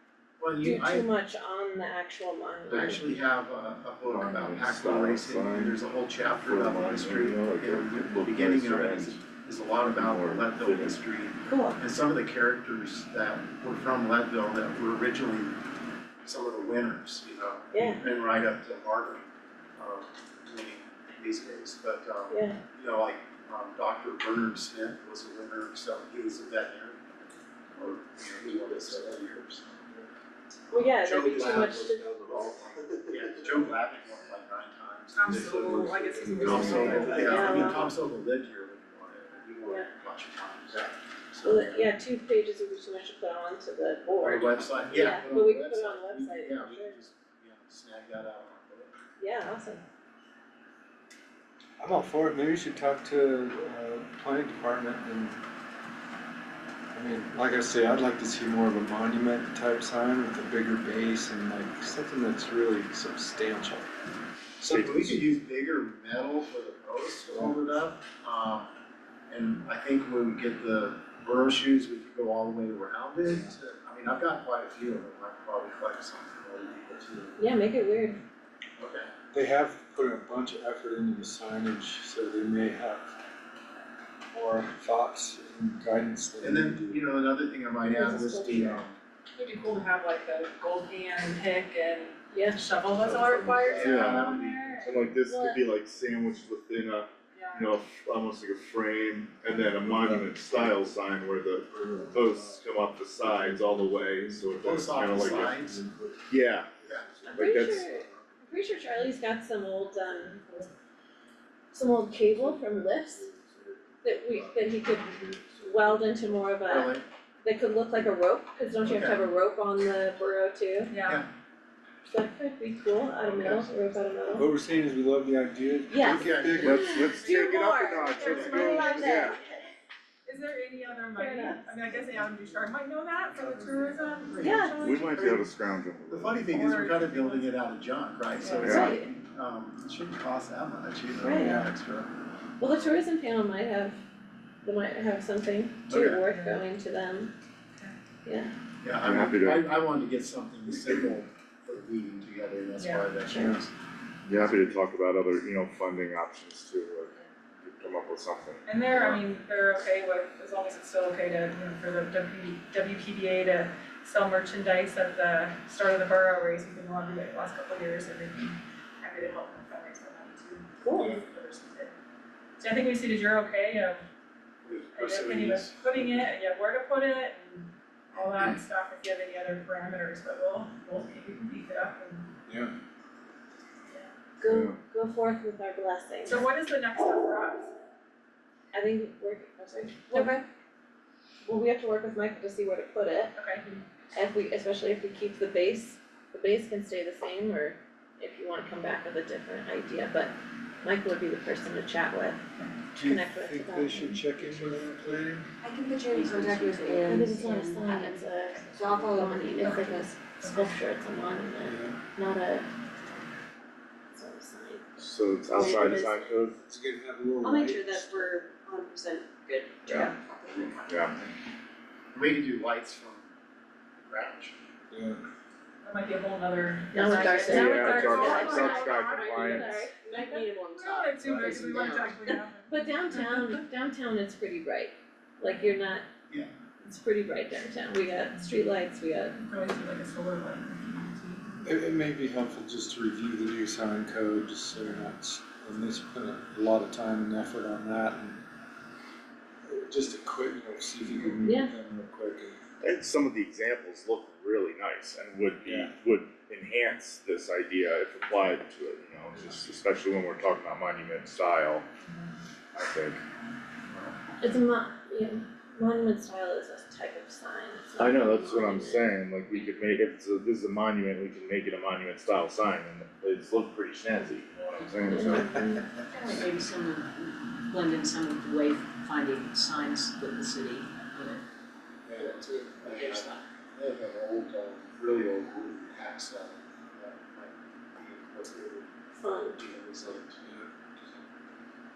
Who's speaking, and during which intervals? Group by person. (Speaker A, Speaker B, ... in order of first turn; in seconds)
Speaker A: 0.4-1.1, 2.7-15.6, 16.2-19.2, 19.8-27.0, 27.7-29.9, 30.8-31.8, 33.0-41.9, 44.2-48.9, 64.7-68.7, 69.3-77.4, 78.8-79.1, 86.4-89.0, 93.7-94.7, 104.6-105.8, 106.8-107.1, 116.7-117.0, 118.8-119.3, 123.2-123.7, 126.0-127.0, 134.3-135.5, 136.1-142.1, 142.7-142.9, 145.9-146.2, 148.8-153.7, 174.6-175.8, 222.1-223.3, 224.1-224.6, 282.1-290.5
Speaker B: 0.6-3.0, 11.5-11.8, 17.7-18.0, 22.3-22.6, 30.7-32.1, 36.6-37.8, 41.4-47.0, 49.2-49.8, 77.4-78.2, 87.9-88.8, 92.3-92.6, 95.2-95.6, 107.3-110.5, 111.7-113.3, 114.0-120.9, 122.1-124.5, 125.9-129.5, 131.1-131.7, 134.4-134.8, 138.6-139.1, 141.2-141.6, 142.6-144.0, 144.6-147.3, 148.2-148.5, 153.3-153.6, 170.8-171.1, 184.4-186.4, 188.7-190.4, 191.4-193.3, 194.2-202.4, 203.0-204.3, 207.0-212.7, 214.1-214.9, 215.5-216.4, 226.9-230.5, 232.7-236.1, 236.8-239.4, 251.4-251.7, 264.4-269.1, 275.1-275.8, 289.2-289.6
Speaker C: 4.1-5.8, 6.4-9.2, 9.8-11.0, 64.7-65.0, 93.0-105.6, 106.3-106.8, 107.3-107.9, 126.5-129.4, 134.8-136.4, 138.6-139.0, 149.0-149.7, 154.2-159.2, 184.4-184.8, 215.0-216.6, 219.9-220.1, 220.9-221.2, 227.4-229.7, 252.8-261.9, 262.7-263.2, 268.0-275.5
Speaker D: 31.6-33.1, 36.4-37.5, 51.8-55.4, 56.9-63.9, 64.6-65.2, 79.3-83.1, 84.3-87.0, 99.8-100.8, 101.7-102.6, 103.2-104.5, 105.1-108.2, 112.3-113.8, 115.1-116.1, 124.4-127.0, 153.3-153.6, 182.5-182.7, 202.9-205.5, 211.6-212.0, 216.7-218.3, 224.9-225.2, 241.6-248.4, 249.7-252.6, 255.6-256.0, 282.1-282.4, 290.4-291.2
Speaker E: 35.1-37.8, 89.4-94.9, 97.3-97.7, 120.9-121.2, 127.0-129.4, 130.3-135.4, 136.5-137.5, 138.4-138.9, 146.3-146.6, 152.8-153.1, 158.7-171.9, 172.6-174.0, 174.9-182.3, 186.3-187.8, 193.3-193.9, 225.8-229.9, 230.8-233.6, 239.4-241.6, 262.0-262.3
Speaker F: 190.1-190.4, 205.6-210.1, 217.4-221.0, 227.1-232.4, 274.8-275.6, 276.1-281.4, 282.4-283.4